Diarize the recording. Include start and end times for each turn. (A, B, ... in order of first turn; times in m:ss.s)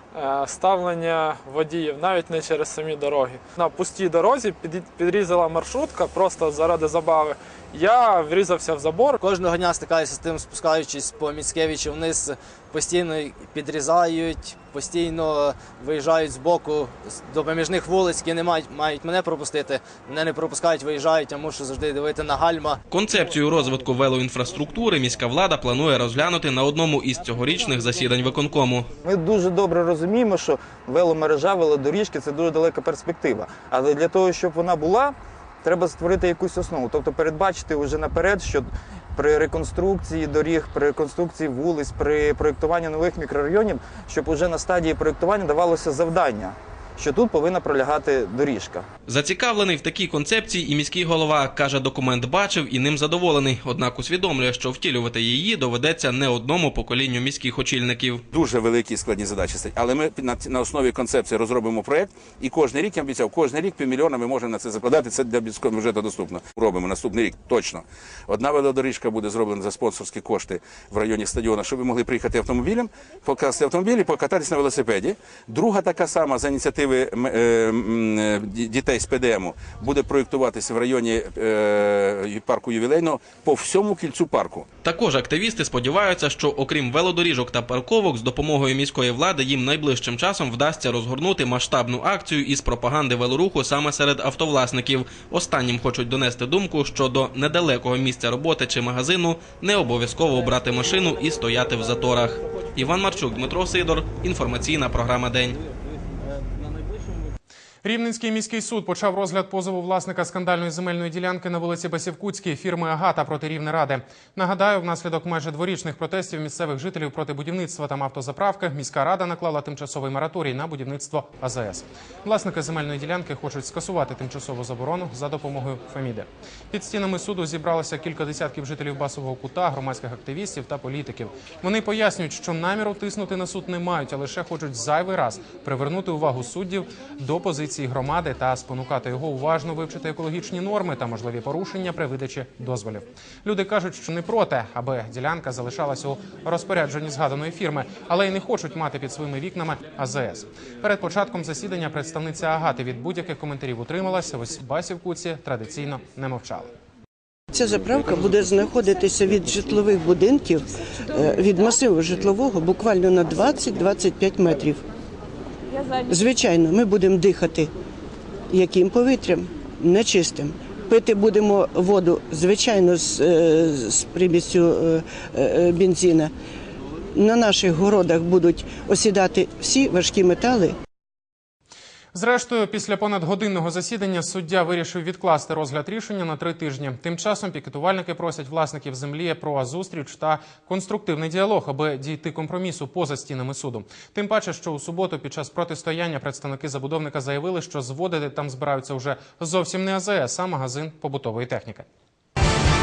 0:00.1-0:09.2 A
0:09.2-0:22.6 B
0:22.9-0:28.9 C
0:29.0-0:48.8 D
0:49.1-0:58.2 C
0:58.3-1:24.6 E
1:24.8-1:45.6 C
1:47.8-2:36.7 F
2:37.5-2:44.8 G
2:46.1-2:47.7 G
2:48.5-2:56.3 G
2:57.1-3:00.8 G
3:02.1-3:21.8 F